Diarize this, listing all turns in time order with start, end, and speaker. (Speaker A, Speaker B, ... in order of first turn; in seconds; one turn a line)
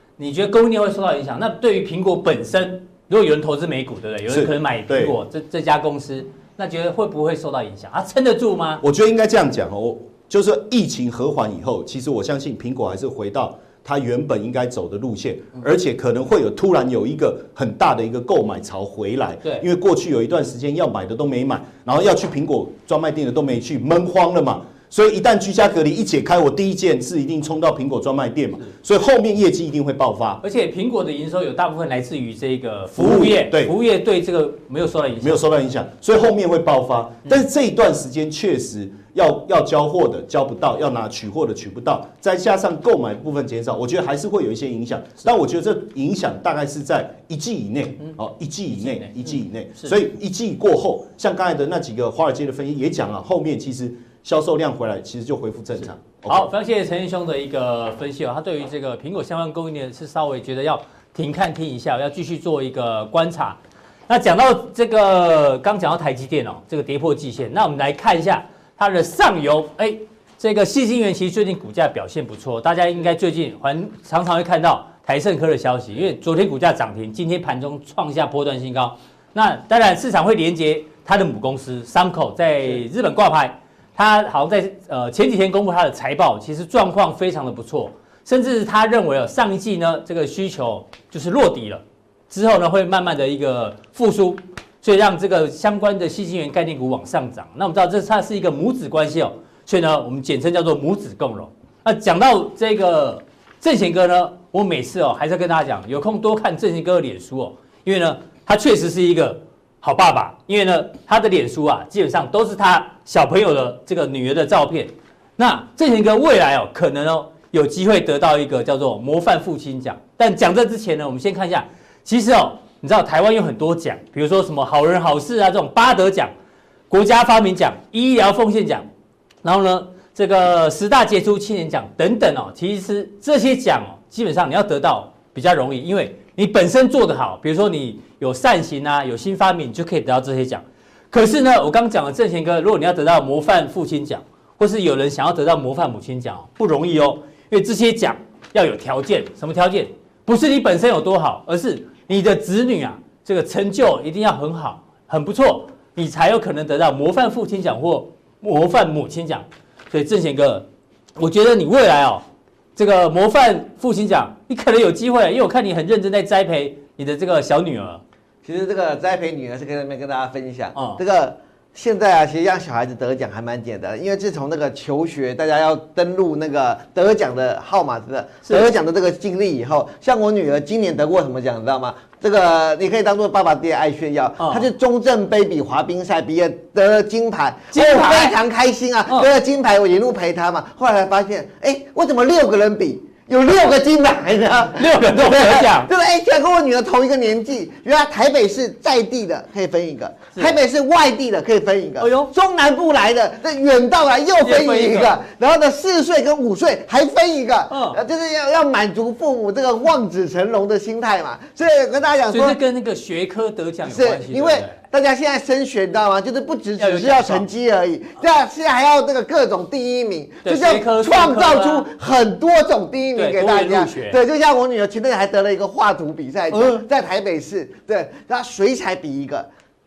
Speaker A: 0.2-8.8
Speaker B: 4.3-5.2
Speaker B: 8.8-30.4
Speaker A: 30.4-35.4
Speaker B: 32.9-33.7
Speaker B: 35.2-56.5
Speaker A: 48.7-49.9
Speaker A: 56.2-126.3
Speaker A: 126.9-128.9
Speaker A: 129.4-162.2
Speaker A: 162.8-168.0
Speaker C: 168.4-212.6
Speaker A: 170.7-171.0
Speaker A: 184.4-184.6
Speaker A: 187.7-188.3
Speaker A: 194.8-195.9
Speaker A: 202.0-202.3
Speaker A: 204.4-205.2
Speaker A: 207.7-208.0
Speaker A: 212.3-214.8
Speaker C: 213.9-229.5
Speaker A: 216.8-217.4
Speaker A: 220.4-221.8
Speaker A: 223.1-224.2
Speaker A: 226.5-226.8